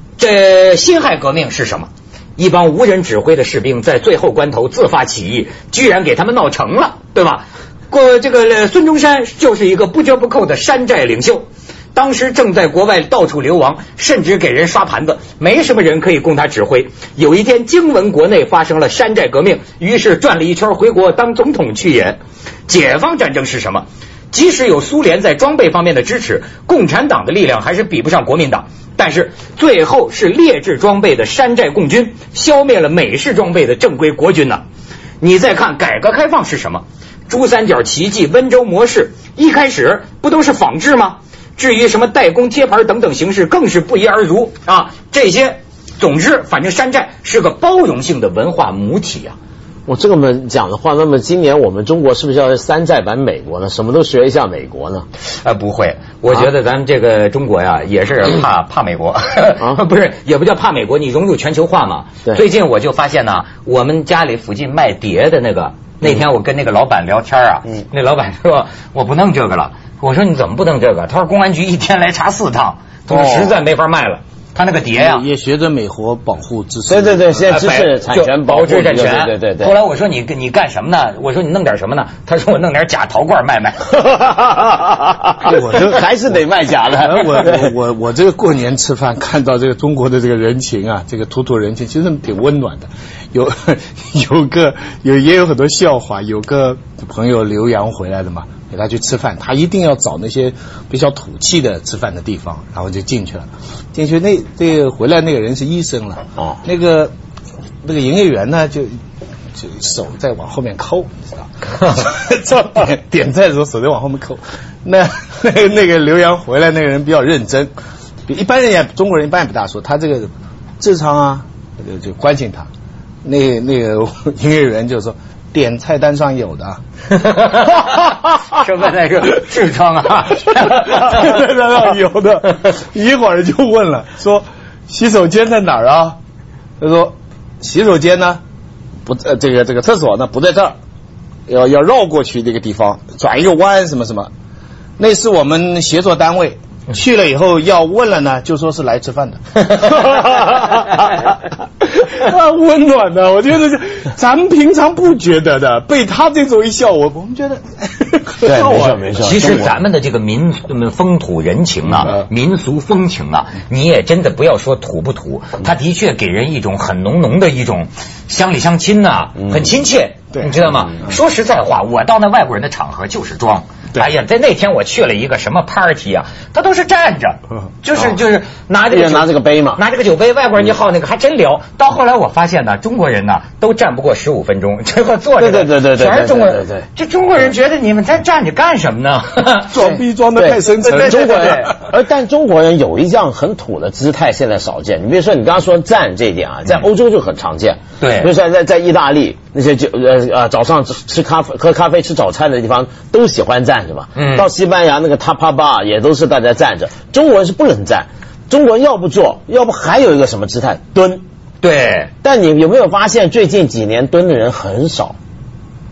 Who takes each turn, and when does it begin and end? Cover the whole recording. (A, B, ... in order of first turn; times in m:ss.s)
0:00.2-0:34.6 A
0:35.2-0:49.4 A
0:49.9-0:55.1 B
0:55.4-1:15.2 A
1:13.1-1:13.6 B
1:15.0-1:17.6 C
1:16.9-1:19.8 B
1:17.5-1:24.0 A
1:23.9-1:27.7 B
1:25.4-1:47.1 C
1:47.8-1:49.0 C
1:49.6-1:57.7 C
1:58.3-2:02.7 C
2:03.2-2:06.8 C
2:07.1-2:11.3 A
2:10.5-2:16.2 C
2:16.8-2:18.4 C
2:19.1-2:20.8 C
2:21.5-2:24.3 C
2:25.0-2:39.1 C
2:38.4-2:39.8 B
2:39.2-3:09.8 A
2:58.9-2:59.8 B
3:05.4-3:06.9 B
3:09.7-3:11.9 C
3:10.4-3:31.2 B
3:10.8-3:11.7 A
3:18.0-3:18.3 A
3:24.2-3:24.5 A
3:31.6-3:32.1 A
3:32.2-3:35.2 B